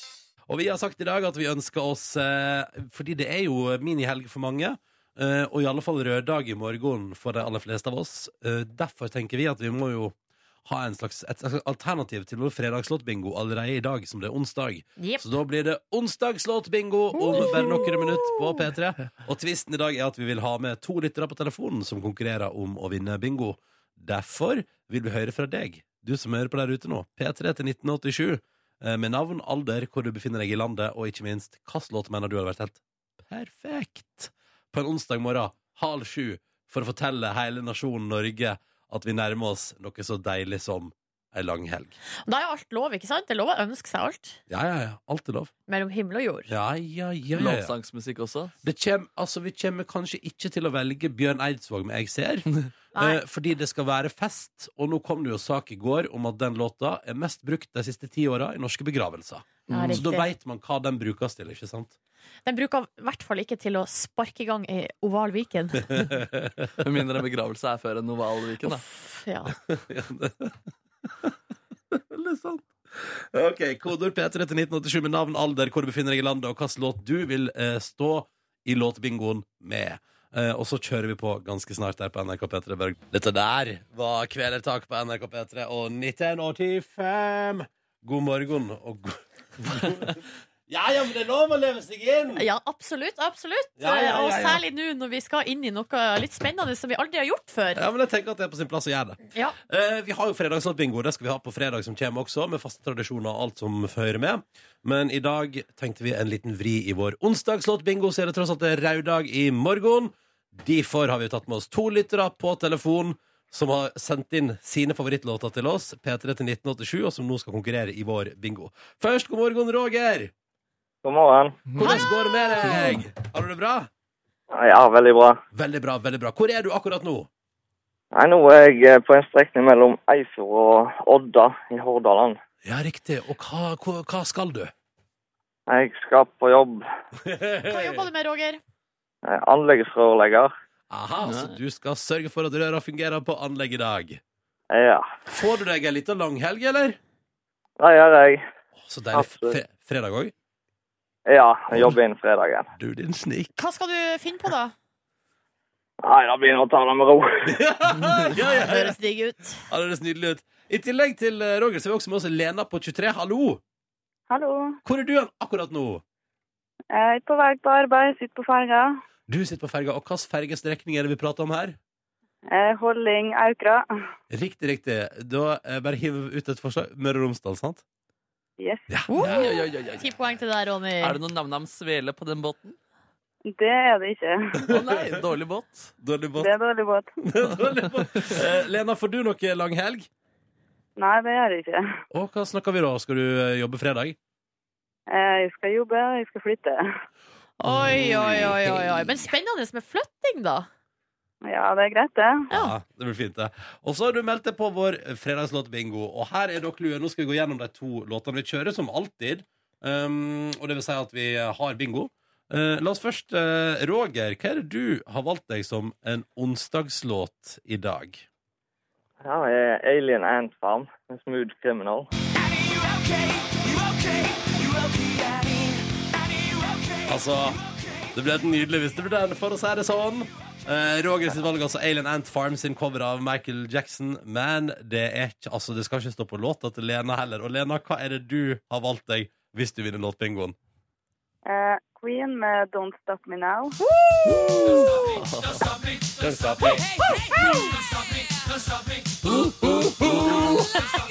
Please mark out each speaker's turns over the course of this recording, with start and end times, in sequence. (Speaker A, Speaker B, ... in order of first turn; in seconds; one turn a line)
Speaker A: 0.5-42.0
Speaker B: 15.0-15.3
Speaker B: 17.1-18.7
Speaker B: 42.3-44.4
Speaker A: 44.5-45.5
Speaker B: 45.7-46.5
Speaker A: 46.5-47.7
Speaker C: 47.4-48.5
Speaker A: 48.6-62.0
Speaker B: 53.0-53.2
Speaker C: 59.7-60.0
Speaker B: 59.7-60.3
Speaker B: 62.5-66.1
Speaker A: 66.0-66.4
Speaker C: 66.8-68.8
Speaker B: 68.7-69.5
Speaker A: 69.7-70.5
Speaker A: 71.9-92.4
Speaker B: 92.3-97.8
Speaker A: 93.8-94.6
Speaker A: 97.8-120.3
Speaker D: 121.0-121.7
Speaker A: 121.8-123.9
Speaker B: 121.8-122.9
Speaker D: 124.5-125.4
Speaker A: 125.5-127.3
Speaker D: 128.1-132.4
Speaker A: 132.6-134.7
Speaker D: 135.7-136.8
Speaker A: 137.2-138.0
Speaker B: 137.7-138.6
Speaker D: 139.2-140.5
Speaker A: 140.9-144.2
Speaker D: 144.7-145.1
Speaker A: 145.3-147.0
Speaker D: 147.8-148.4
Speaker A: 148.8-150.3
Speaker D: 149.1-149.6
Speaker D: 151.3-152.7
Speaker A: 152.8-153.5
Speaker B: 153.6-154.7
Speaker D: 156.0-157.3
Speaker A: 157.4-159.0
Speaker B: 158.3-159.6
Speaker A: 159.7-163.6
Speaker E: 164.3-164.8
Speaker A: 164.8-166.0
Speaker E: 166.9-169.0
Speaker A: 169.3-171.8
Speaker E: 172.5-173.9
Speaker A: 174.3-177.8
Speaker E: 178.6-178.9
Speaker A: 178.9-179.6
Speaker B: 179.1-181.2
Speaker C: 179.2-180.1
Speaker C: 181.0-182.8
Speaker E: 183.5-184.7
Speaker C: 184.7-185.9
Speaker A: 186.0-186.5
Speaker E: 186.4-187.1
Speaker A: 187.2-190.1
Speaker E: 191.0-192.0
Speaker A: 192.1-194.2
Speaker E: 195.1-196.9
Speaker B: 197.6-200.7
Speaker A: 197.7-199.2
Speaker E: 201.4-202.5
Speaker A: 202.5-218.3
Speaker D: 219.2-222.1
Speaker A: 227.1-227.6
Speaker A: 228.1-240.6
Speaker E: 241.5-243.8
Speaker B: 243.8-244.9
Speaker A: 244.2-245.6
Speaker C: 245.2-245.8
Speaker A: 246.2-246.8
Speaker A: 249.2-250.8
Speaker C: 249.3-250.7